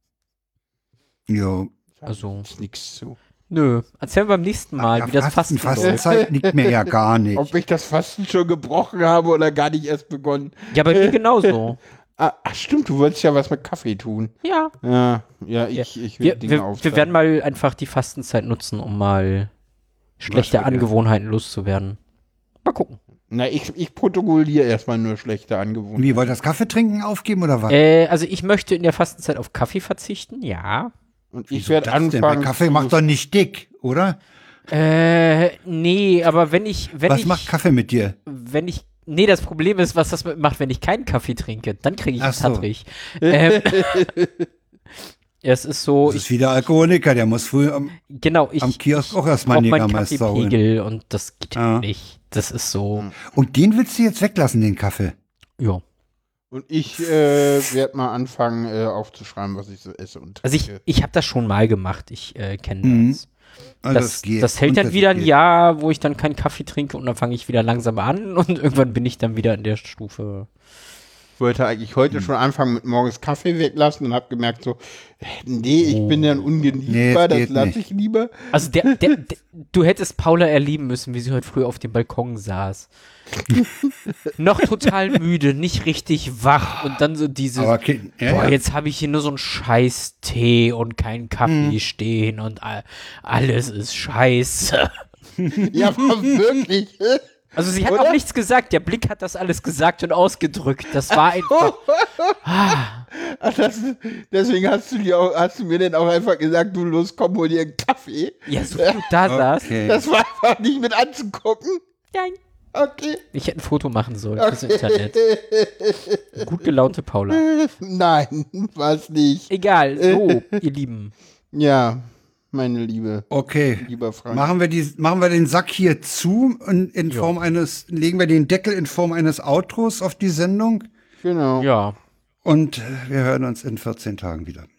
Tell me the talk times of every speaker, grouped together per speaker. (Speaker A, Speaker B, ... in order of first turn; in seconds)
Speaker A: 1.3-1.7, 4.8-7.5, 20.3-20.9, 26.0-27.8, 31.5-34.2, 37.1-38.2, 42.2-42.7, 46.1-47.9, 48.6-50.6, 51.6-51.9, 53.3-55.1, 62.8-63.2, 63.8-65.3, 76.9-77.8, 87.6-88.6, 91.5-91.8, 95.4-95.8, 109.3-110.0, 123.3-130.9, 132.4-134.7
Speaker B: 2.0-3.2, 5.8-6.8, 7.3-11.6, 12.2-17.1, 23.3-26.3, 31.3-33.0, 43.2-44.5, 56.5-60.8, 71.4-79.1, 95.6-97.2, 97.9-98.2, 101.1-102.4, 103.1-109.0, 109.8-111.8, 112.7-113.2, 114.4-116.5, 117.3-120.6, 121.5-123.3, 123.8-124.5, 131.2-131.7
Speaker C: 2.1-2.5, 3.5-6.0, 10.7-11.8, 14.4-14.7, 15.8-19.5, 20.2-22.0, 22.6-23.0, 27.7-30.9, 34.7-37.5, 38.3-44.1, 45.4-46.3, 48.1-53.1, 60.4-63.3, 63.9-70.5, 75.8-76.5, 78.5-82.9, 84.4-95.0, 97.5-101.8, 102.4-103.1, 108.5-109.7, 113.3-115.2, 116.4-117.4, 119.5-121.1, 131.6-132.0